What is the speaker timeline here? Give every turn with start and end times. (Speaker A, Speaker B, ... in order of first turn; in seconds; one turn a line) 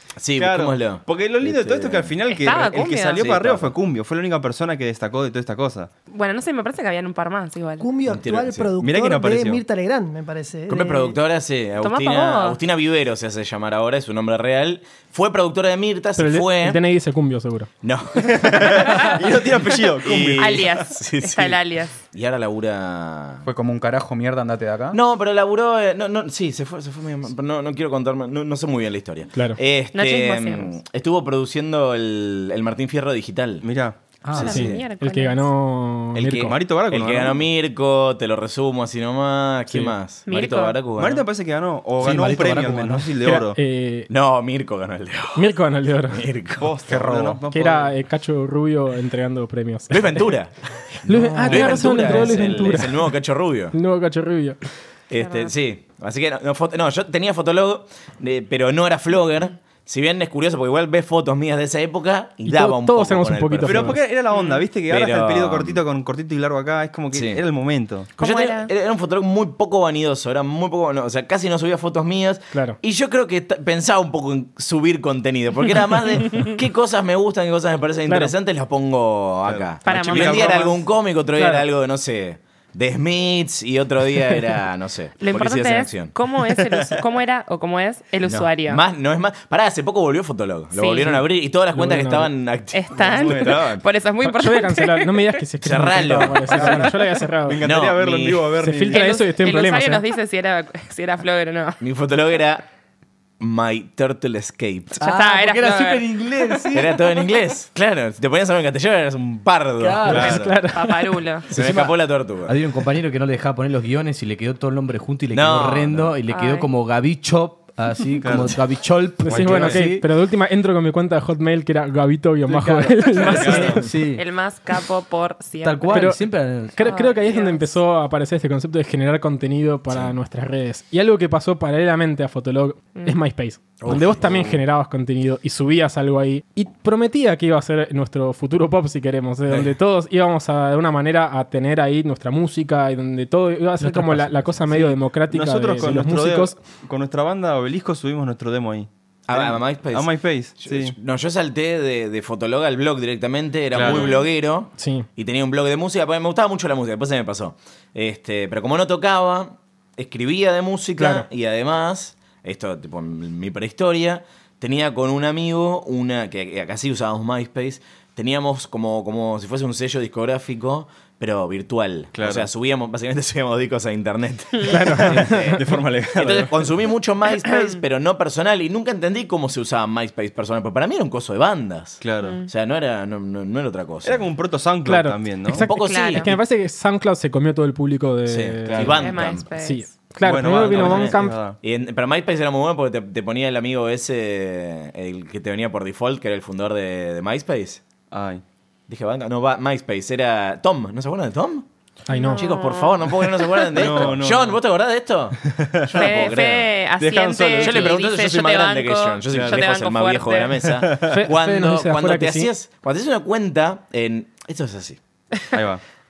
Speaker A: 0.2-2.1
Speaker B: 0.4-5.9
Speaker C: 2.3-3.2
Speaker A: 3.1-3.7
Speaker C: 6.1-7.9
Speaker D: 7.8-11.2
Speaker A: 8.1-8.7
Speaker B: 8.8-9.6
Speaker A: 10.7-16.8
Speaker C: 11.8-12.6
Speaker E: 16.2-17.7
Speaker A: 17.8-21.6
Speaker B: 18.2-20.8
Speaker C: 20.4-21.9
Speaker A: 22.1-23.5
Speaker F: 23.4-25.0
Speaker A: 24.9-33.6
Speaker C: 29.9-30.8
Speaker B: 33.6-34.0
Speaker G: 34.2-34.7
Speaker A: 34.3-34.8
Speaker C: 34.4-35.5
Speaker E: 34.4-36.6
Speaker A: 36.1-41.2
Speaker B: 36.4-37.4
Speaker C: 40.3-40.8
Speaker B: 41.0-43.6
Speaker G: 42.0-43.1
Speaker E: 43.2-44.1
Speaker A: 44.1-45.5
Speaker E: 45.3-46.2
Speaker A: 46.0-46.7
Speaker B: 46.6-47.9
Speaker F: 46.9-47.4
Speaker E: 47.5-50.3
Speaker A: 49.9-53.7
Speaker E: 51.0-53.1
Speaker G: 51.3-52.6
Speaker E: 53.7-54.6
Speaker A: 55.1-64.0
Speaker C: 55.1-55.5
Speaker E: 62.5-64.0
Speaker B: 63.6-68.1
Speaker C: 64.3-64.6
Speaker A: 64.9-65.8
Speaker A: 67.1-67.4
Speaker C: 68.2-68.7
Speaker A: 68.2-86.1
Speaker E: 78.1-78.3
Speaker B: 79.5-80.8
Speaker C: 79.8-80.7
Speaker E: 81.3-81.6
Speaker C: 85.2-88.8
Speaker A: 88.3-93.8
Speaker C: 90.7-91.2
Speaker E: 91.7-92.3
Speaker C: 92.7-95.4
Speaker B: 92.9-93.7
Speaker E: 94.2-97.6
Speaker A: 95.6-96.9
Speaker B: 97.4-99.1
Speaker A: 97.6-98.5
Speaker E: 98.6-100.0
Speaker C: 98.9-101.8
Speaker A: 101.8-102.7
Speaker A: 103.4-105.0
Speaker C: 105.0-106.1
Speaker G: 105.0-107.1
Speaker A: 106.7-110.2
Speaker G: 109.8-110.5
Speaker E: 110.1-111.2
Speaker B: 110.1-110.6
Speaker C: 110.7-111.5
Speaker A: 111.5-112.5
Speaker G: 111.5-120.0
Speaker A: 115.3-116.1
Speaker C: 116.3-116.7
Speaker B: 118.2-118.6
Speaker E: 119.2-123.9
Speaker B: 119.3-119.8
Speaker G: 122.5-124.2
Speaker B: 123.2-123.8
Speaker C: 124.1-126.2
Speaker G: 125.6-126.8
Speaker E: 125.9-146.6
Speaker C: 126.8-127.8
Speaker A: 129.9-130.1
Speaker A: 133.8-134.6
Speaker A: 139.5-139.7
Speaker G: 143.8-144.9
Speaker B: 145.3-150.9
Speaker A: 149.3-184.3
Speaker B: 153.7-154.1
Speaker C: 153.8-154.3
Speaker E: 154.8-155.1
Speaker E: 161.0-161.2
Speaker B: 172.1-172.5
Speaker E: 174.7-175.6
Speaker B: 175.2-176.5
Speaker C: 177.5-177.8
Speaker B: 182.0-182.3
Speaker C: 182.2-182.5
Speaker B: 184.0-185.6
Speaker E: 184.8-191.4
Speaker A: 185.6-186.4
Speaker C: 185.7-186.3
Speaker A: 188.3-189.4
Speaker B: 188.7-189.0
Speaker C: 188.9-189.9
Speaker B: 190.2-191.6
Speaker A: 190.4-197.8
Speaker B: 198.1-198.4
Speaker A: 198.9-201.7
Speaker E: 202.1-202.5
Speaker C: 202.1-203.9
Speaker A: 202.3-206.7
Speaker B: 203.7-204.6
Speaker B: 205.6-206.2
Speaker C: 205.9-210.7
Speaker B: 207.0-207.9
Speaker A: 207.6-215.0
Speaker B: 209.3-209.6
Speaker B: 210.8-211.2
Speaker E: 211.1-212.5
Speaker B: 215.5-215.8